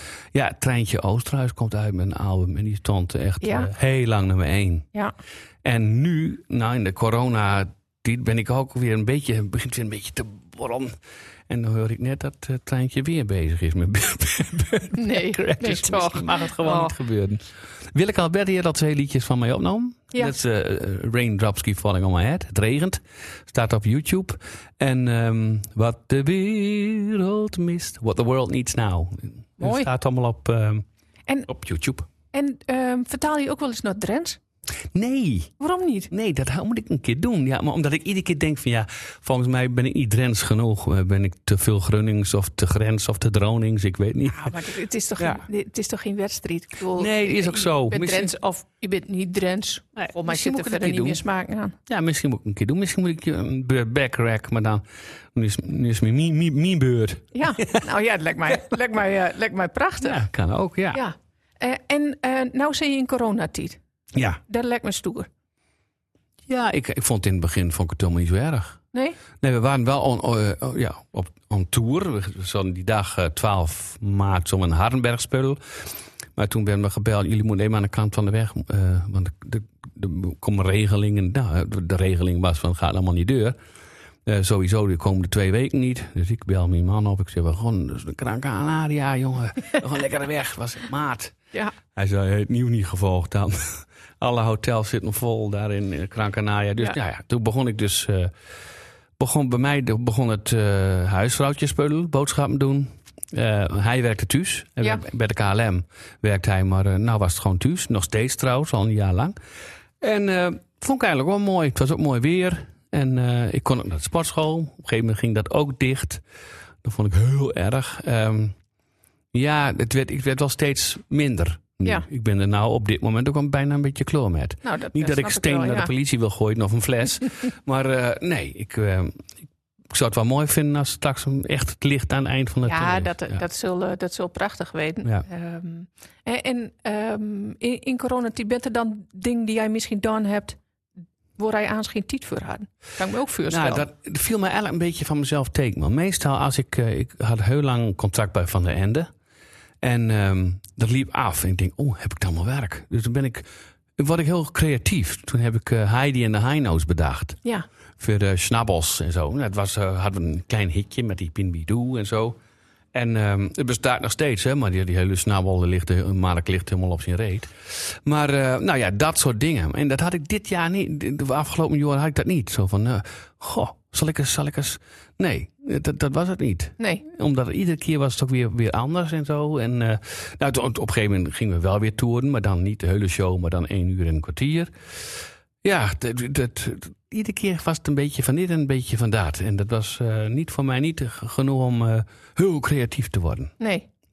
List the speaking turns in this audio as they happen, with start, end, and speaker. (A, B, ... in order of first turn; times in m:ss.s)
0:00.3-0:04.9 A
0:03.4-0:03.7 B
0:05.6-0:11.0 A
0:11.5-0:30.8 A
0:15.0-0:16.9 B
0:29.6-0:29.9 B
0:31.5-0:32.1 A
0:32.3-0:34.4 B
0:34.9-0:35.5 A
0:35.6-0:36.1 B
0:36.1-0:44.6 A
0:44.3-0:51.8 B
0:46.9-0:48.3 A
0:50.0-0:51.2 A
0:51.9-0:54.8 A
0:55.4-0:57.8 A
0:57.4-1:00.2 B
1:00.0-1:01.0 A
1:00.9-1:03.8 B
1:04.1-1:04.4 A
1:04.5-1:05.3 B
1:06.5-1:08.8 A
1:08.9-1:09.2 B
1:09.4-1:15.6 A
1:16.4-1:23.6 A
1:24.3-1:31.4 A
1:31.9-1:38.3 A
1:39.2-1:49.4 A
1:50.0-1:56.2 A
1:56.8-1:58.6 A
1:59.3-2:09.2 A
2:04.6-2:05.9 B
2:09.9-2:13.4 A
2:12.7-2:20.6 B
2:21.4-2:23.8 B
2:23.5-2:29.1 A
2:29.8-2:37.4 A
2:38.0-2:42.4 A
2:42.9-3:13.5 A
3:13.6-3:13.9 B